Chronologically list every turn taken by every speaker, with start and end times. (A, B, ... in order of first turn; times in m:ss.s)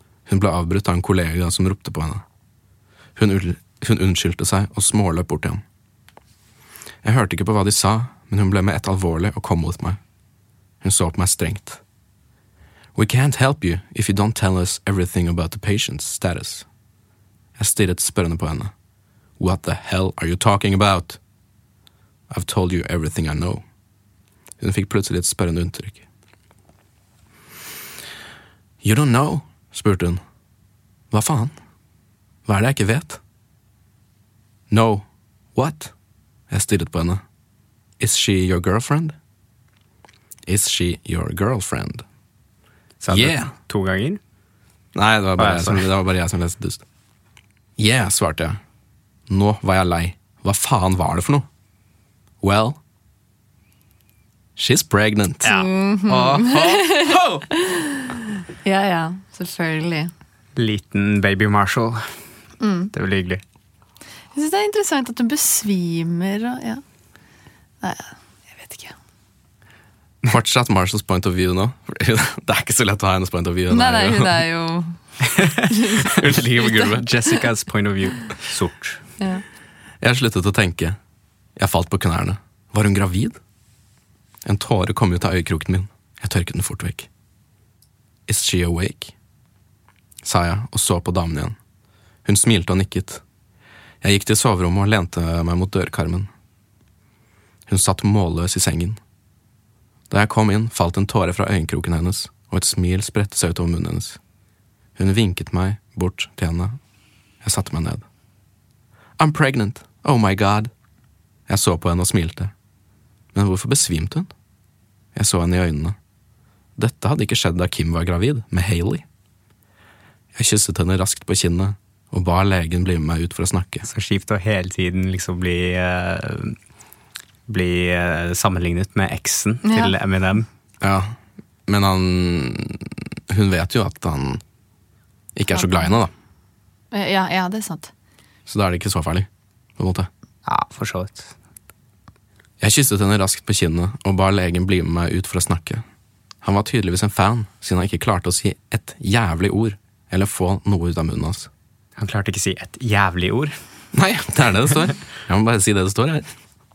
0:00.3-0:02.2 A
0:03.2-0:05.6 A
0:07.0-0:10.0 A
0:10.8-0:11.8 A
0:12.9-0:16.7 A
0:17.6-0:18.7 A
0:19.4-0:21.2 A
0:22.3-0:23.6 A
0:24.6-0:26.0 A
0:28.8-0:30.2 A
0:31.1-0:31.5 A
0:32.4-0:33.2 A
0:34.7-0:35.9 A
0:36.5-0:37.2 A
0:38.0-0:39.2 A
0:40.5-0:42.0 A
0:43.0-0:44.2 B
0:43.1-0:43.5 A
0:44.9-0:46.8 A
0:45.4-0:45.9 B
0:47.8-0:48.6 A
0:49.3-0:51.4 A
0:52.4-0:52.8 A
0:54.6-0:57.4 A
0:55.5-1:00.1 C
1:00.6-1:02.2 B
1:02.6-1:02.9 C
1:02.9-1:03.4 B
1:04.3-1:06.8 C
1:07.8-1:09.0 C
1:10.2-1:14.4 A
1:13.7-1:15.0 C
1:15.7-1:16.1 C
1:16.0-1:17.1 A
1:16.8-1:19.0 B
1:20.0-1:21.0 A
1:21.6-1:23.4 A
1:24.4-1:27.1 A
1:28.3-1:29.1 A
1:30.2-1:31.6 A
1:32.2-1:33.2 A
1:34.0-1:36.3 A
1:37.7-1:39.0 A
1:40.1-1:44.2 A
1:45.0-1:46.8 A
1:47.4-1:48.0 A
1:49.2-1:50.7 A
1:51.5-1:52.5 A
1:53.3-1:54.3 A
1:55.1-1:56.0 A
1:56.8-1:59.0 A
2:00.3-2:03.8 A
2:03.9-2:06.6 B
2:07.5-2:10.4 B
2:09.6-2:09.9 C
2:10.8-2:14.4 A
2:15.3-2:16.1 A
2:15.5-2:15.9 C
2:16.9-2:17.9 C
2:18.5-2:20.1 A
2:20.4-2:21.3 B
2:22.6-2:25.8 A
2:26.4-2:31.5 A
2:32.0-2:33.5 B
2:33.9-2:36.3 A